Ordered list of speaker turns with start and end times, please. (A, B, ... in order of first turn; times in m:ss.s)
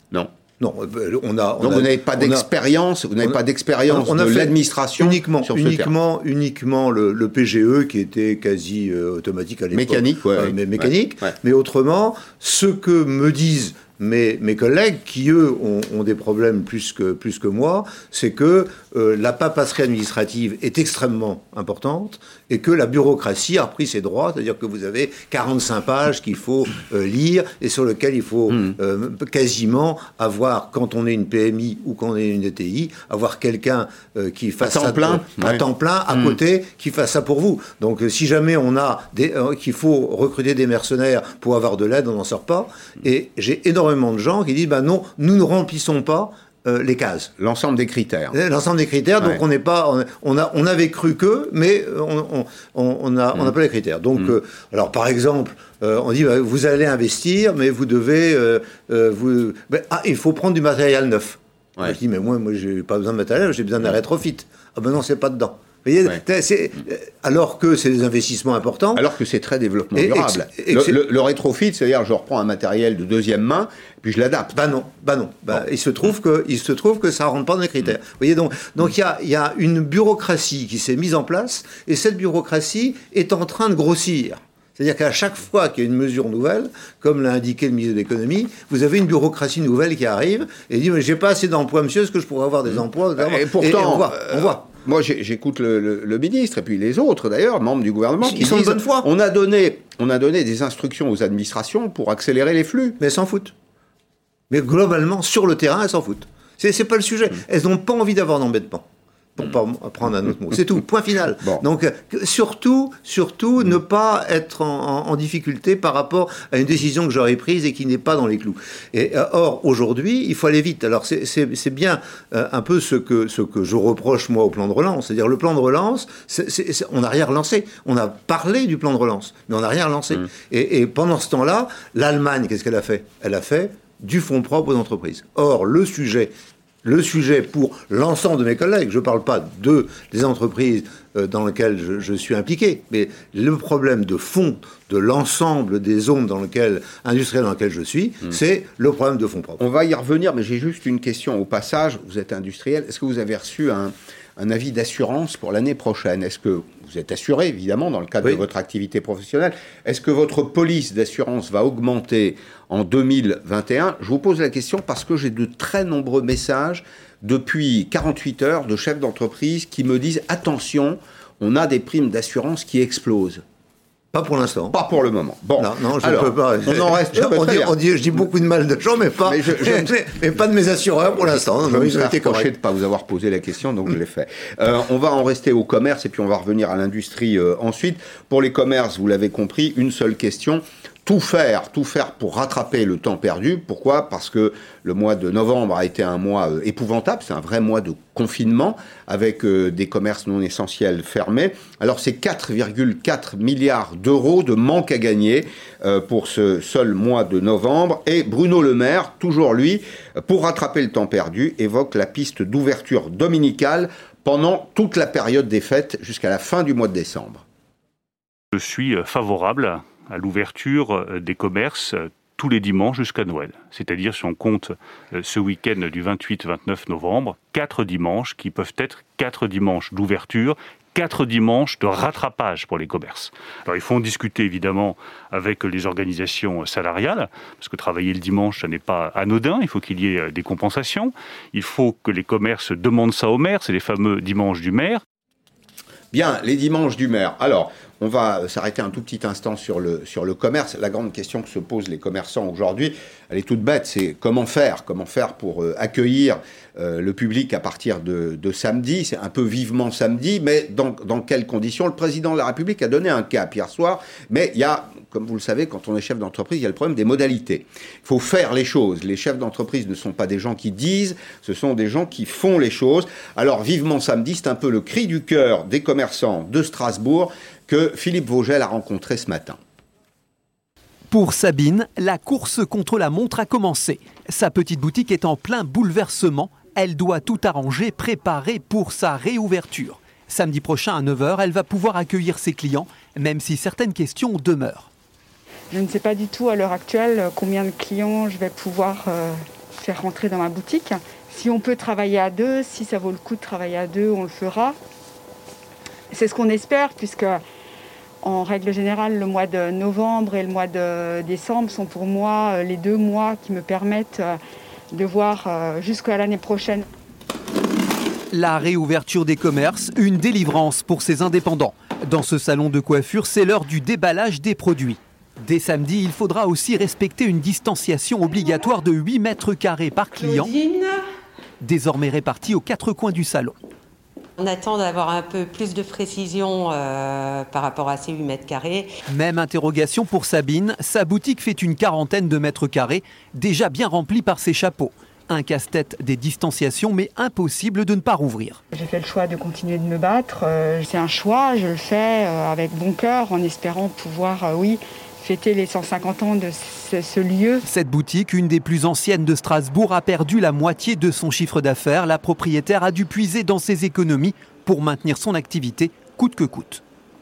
0:00.6-0:02.4 A
0:01.6-0:05.9 B
0:03.9-0:47.3 A
0:09.7-0:11.3 B
0:34.6-0:36.4 B
0:47.4-0:48.3 B
0:48.3-1:09.0 A
1:08.9-1:14.6 B
1:09.9-1:11.0 A
1:14.5-1:34.6 A
1:33.2-1:43.0 B
1:38.2-1:39.1 A
1:43.0-1:43.5 A
1:44.5-2:16.3 A
2:16.8-2:29.6 A
2:29.6-2:53.4 B
2:54.1-2:54.8 A
2:54.7-2:57.8 B
2:55.6-3:02.5 A
2:59.2-3:00.0 B
3:01.2-3:37.4 B
3:38.5-4:05.0 C
4:06.1-4:39.6 B
4:41.1-4:54.9 D
4:55.7-5:04.8 E
5:06.1-5:07.4 E
5:08.2-5:14.4 E
5:14.9-5:16.8 E
5:18.3-5:30.5 D
5:30.2-5:31.0 F
5:31.6-5:33.5 D
5:34.4-5:38.9 F
5:39.1-5:48.6 D
5:48.7-5:57.6 E
5:57.6-6:06.8 D